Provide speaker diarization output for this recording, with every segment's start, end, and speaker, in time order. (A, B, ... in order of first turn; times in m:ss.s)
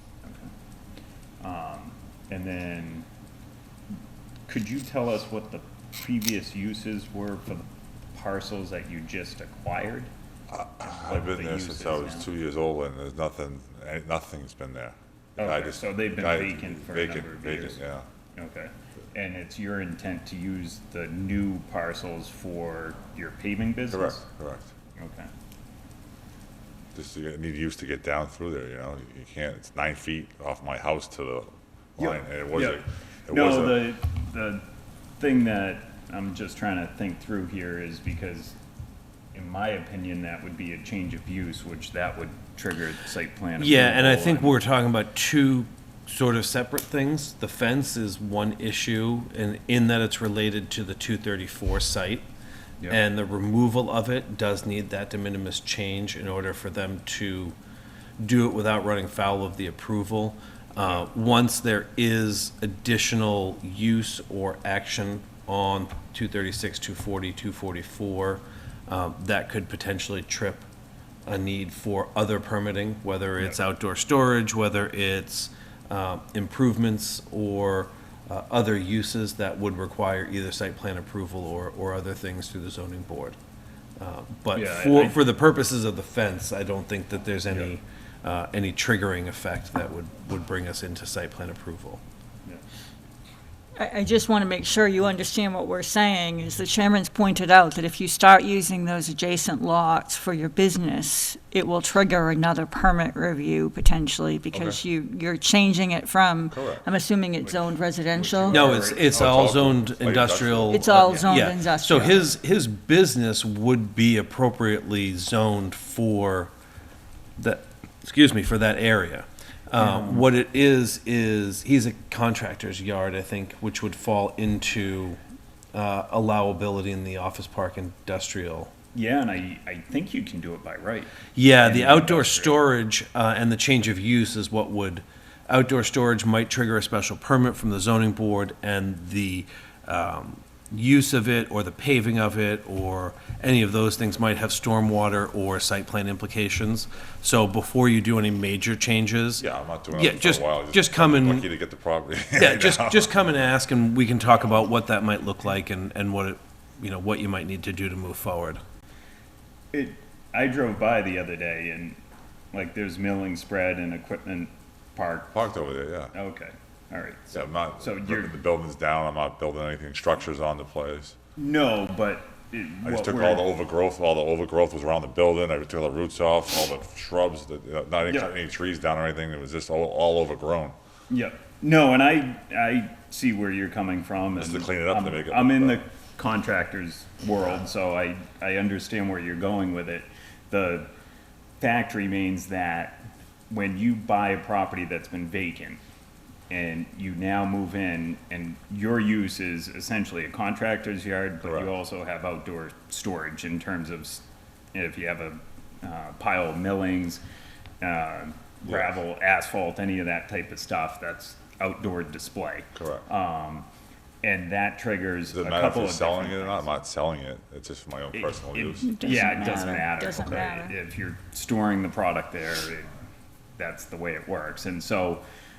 0:00.2-0:00.5 A
0:01.4-0:03.0 A
0:04.5-0:10.1 A
0:10.5-0:18.0 B
0:10.8-0:12.3 A
0:15.4-0:17.8 A
0:18.3-0:24.2 A
0:23.9-0:24.7 B
0:25.0-0:25.3 A
0:26.9-0:33.9 B
0:32.0-0:34.6 A
0:35.2-0:38.5 A
0:39.3-0:44.6 A
0:43.6-0:52.2 C
0:52.9-0:57.6 C
0:58.2-1:10.7 C
1:11.2-1:23.4 C
1:24.0-1:32.0 C
1:24.5-1:25.2 A
1:27.5-1:27.7 A
1:33.8-1:48.7 D
1:44.5-1:44.8 B
1:46.5-1:46.8 B
1:48.1-1:49.5 A
1:48.5-1:51.2 B
1:48.5-1:56.5 C
1:50.7-1:52.3 D
1:57.4-2:05.2 C
2:05.7-2:08.7 C
2:08.9-2:12.6 A
2:11.3-2:31.5 C
2:29.4-2:33.2 B
2:32.4-2:38.6 C
2:39.7-2:42.0 A
2:42.5-2:45.4 A
2:45.3-2:46.1 B
2:46.1-2:48.4 A
2:47.3-2:51.1 B
2:51.4-2:53.4 A
2:52.8-3:00.7 B
2:58.1-2:58.4 A
3:01.1-3:10.9 A
3:04.4-3:05.8 B
3:11.6-3:15.8 A
3:16.5-3:27.2 A
3:21.4-3:21.7 B
3:27.8-3:33.7 A
3:28.6-3:29.0 B
3:32.7-3:33.0 B
3:34.2-3:36.7 A
3:35.3-3:40.5 B
3:38.1-3:42.9 A
3:38.8-3:40.7 D
3:43.6-3:45.2 A